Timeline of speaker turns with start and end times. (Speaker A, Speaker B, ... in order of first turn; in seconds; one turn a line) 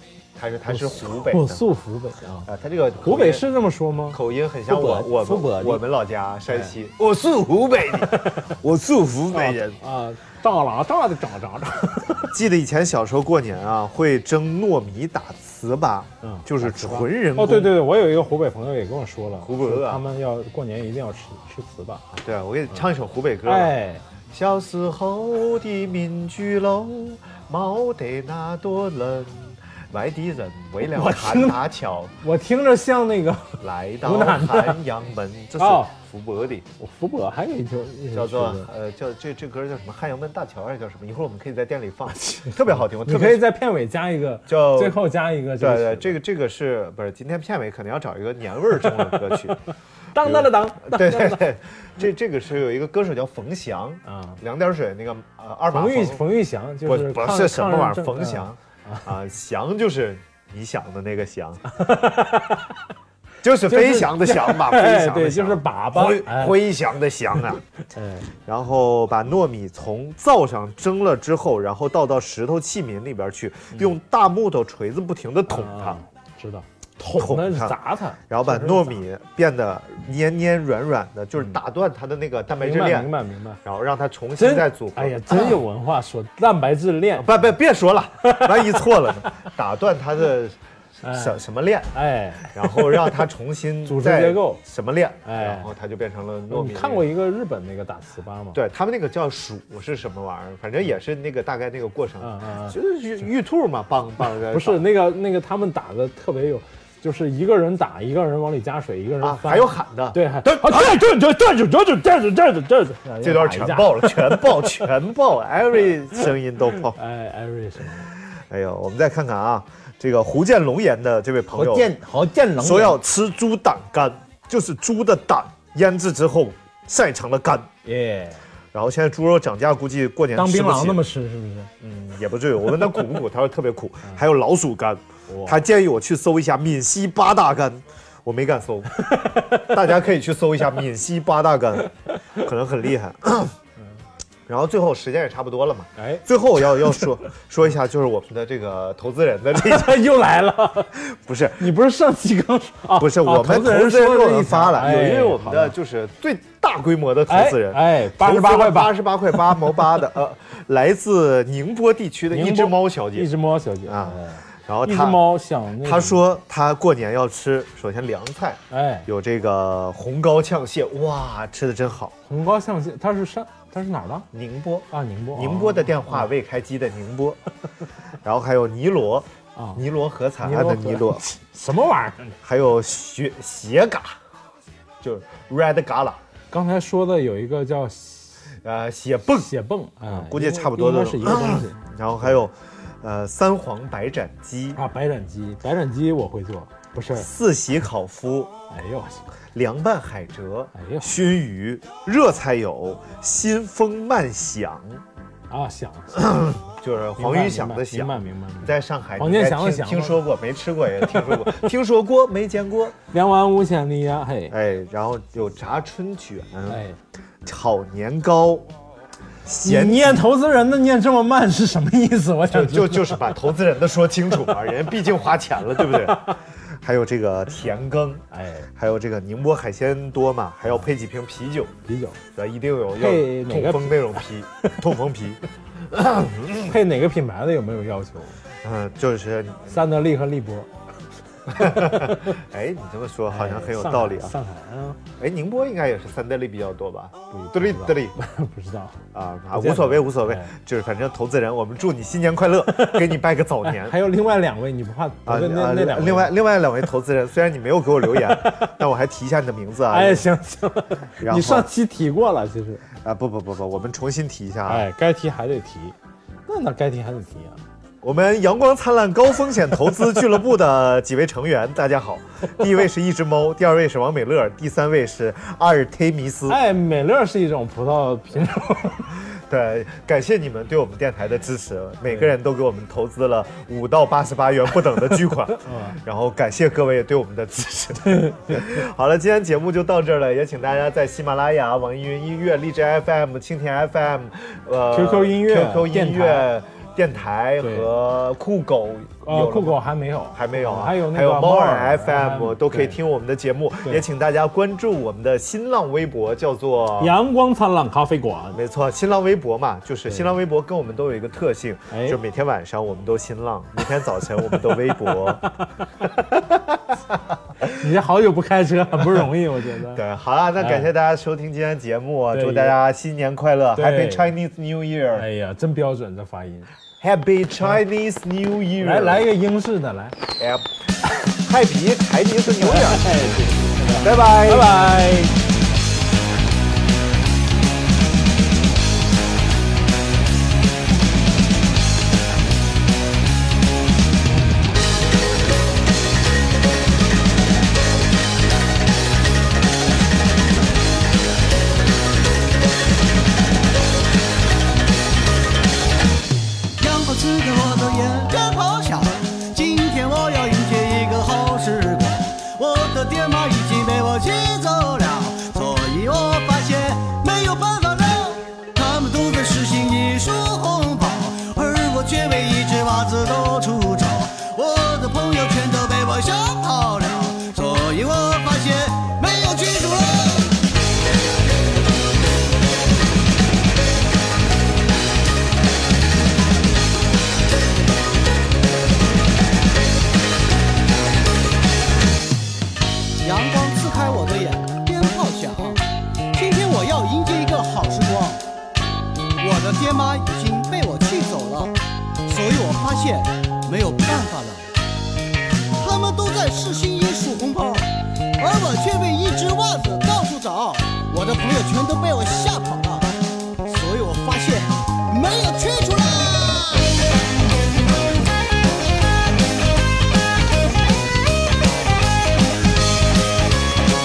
Speaker A: 0.3-1.6
Speaker B: 0.7-2.5
Speaker A: 2.5-3.5
Speaker B: 3.0-5.8
Speaker A: 4.1-9.8
Speaker B: 9.3-12.3
Speaker A: 12.2-17.8
Speaker B: 16.2-22.1
Speaker A: 19.4-20.0
Speaker A: 22.1-23.8
Speaker B: 23.4-24.0
Speaker A: 24.3-32.1
Speaker B: 30.8-31.6
Speaker B: 32.2-34.8
Speaker A: 33.6-36.6
Speaker B: 35.6-35.9
Speaker B: 36.8-38.7
Speaker A: 38.1-43.5
Speaker B: 42.1-46.1
Speaker A: 44.5-45.0
Speaker A: 45.6-49.6
Speaker B: 50.1-51.4
Speaker A: 50.2-56.2
Speaker B: 54.0-54.4
Speaker B: 55.7-59.1
Speaker A: 56.8-61.6
Speaker B: 61.7-62.8
Speaker A: 63.4-67.6
Speaker B: 63.7-66.7
Speaker B: 67.8-68.3
Speaker A: 68.5-76.0
Speaker B: 75.5-79.0
Speaker A: 77.2-77.8
Speaker A: 78.3-83.1
Speaker B: 82.6-83.6
Speaker A: 83.6-85.6
Speaker B: 84.4-87.3
Speaker A: 87.1-91.9
Speaker B: 88.2-89.1
Speaker B: 91.0-91.4
Speaker B: 91.9-93.1
Speaker A: 92.5-97.1
Speaker B: 93.8-94.6
Speaker B: 95.2-95.7
Speaker B: 96.5-98.6
Speaker A: 98.5-104.9
Speaker B: 102.2-102.8
Speaker B: 104.5-114.8
Speaker A: 109.2-111.0
Speaker A: 113.2-117.0
Speaker B: 116.9-118.1
Speaker A: 118.3-121.9
Speaker B: 121.5-123.0
Speaker A: 122.6-127.7
Speaker B: 127.8-128.4
Speaker A: 128.7-131.1
Speaker B: 130.3-131.7
Speaker A: 131.8-143.5
Speaker B: 135.3-135.6
Speaker B: 139.0-139.7
Speaker A: 144.5-150.0
Speaker B: 146.0-147.0
Speaker B: 149.5-151.0
Speaker A: 151.0-151.7
Speaker B: 151.6-155.7
Speaker A: 152.9-163.3
Speaker B: 157.3-159.8
Speaker B: 162.3-166.2
Speaker A: 163.8-165.3
Speaker A: 165.8-172.1
Speaker B: 168.7-169.1
Speaker B: 172.2-174.3
Speaker A: 174.3-177.4
Speaker B: 174.9-176.3
Speaker A: 178.2-181.2
Speaker B: 179.5-179.8
Speaker B: 180.4-182.4
Speaker A: 182.4-184.2
Speaker A: 185.0-186.2
Speaker B: 186.5-188.4
Speaker A: 188.6-189.5
Speaker B: 189.4-192.3
Speaker A: 190.1-194.8
Speaker B: 194.7-197.3
Speaker A: 197.1-198.5
Speaker B: 198.7-199.2
Speaker A: 199.5-205.0
Speaker B: 200.7-201.3
Speaker B: 205.5-206.6
Speaker A: 206.2-212.9
Speaker B: 207.2-210.2
Speaker B: 211.1-211.6
Speaker B: 213.1-214.6
Speaker A: 214.5-216.8
Speaker B: 216.7-217.0
Speaker A: 217.4-218.7
Speaker A: 219.4-220.2
Speaker B: 219.6-223.4
Speaker A: 222.5-228.2
Speaker B: 226.1-226.3
Speaker B: 228.3-228.7
Speaker A: 228.7-231.7
Speaker B: 231.8-232.2
Speaker A: 232.3-236.7
Speaker B: 232.9-234.2
Speaker B: 236.6-238.3
Speaker A: 238.6-239.8
Speaker B: 239.7-240.7
Speaker B: 241.5-242.4
Speaker A: 241.5-244.3
Speaker B: 243.3-245.0
Speaker A: 245.2-248.1
Speaker B: 247.3-249.0
Speaker A: 249.1-254.0
Speaker B: 249.5-250.5
Speaker B: 252.7-253.1
Speaker B: 253.6-256.4
Speaker A: 255.2-260.3
Speaker B: 259.9-262.9
Speaker A: 261.2-261.7
Speaker A: 263.0-264.9
Speaker B: 264.6-265.9
Speaker B: 266.5-267.6
Speaker A: 268.0-276.6
Speaker B: 276.5-279.2
Speaker A: 279.3-299.8
Speaker B: 285.5-286.0
Speaker B: 288.0-288.7
Speaker B: 294.9-296.5
Speaker B: 297.6-297.9
Speaker B: 299.2-303.0
Speaker A: 300.3-307.1
Speaker B: 307.0-308.6
Speaker A: 308.5-315.4
Speaker B: 311.9-312.2
Speaker B: 314.5-315.9
Speaker A: 316.3-317.3
Speaker B: 317.7-320.0
Speaker A: 319.9-325.3
Speaker B: 320.6-320.9
Speaker B: 322.3-322.8
Speaker B: 323.7-324.3
Speaker B: 325.1-326.7
Speaker A: 327.0-329.3
Speaker B: 328.8-330.2
Speaker A: 330.4-333.1
Speaker B: 332.5-335.4
Speaker A: 333.9-334.8
Speaker C: 356.8-380.6
Speaker C: 393.2-395.8
Speaker C: 396.3-398.4
Speaker C: 399.4-404.7
Speaker C: 405.8-413.1
Speaker C: 413.6-416.9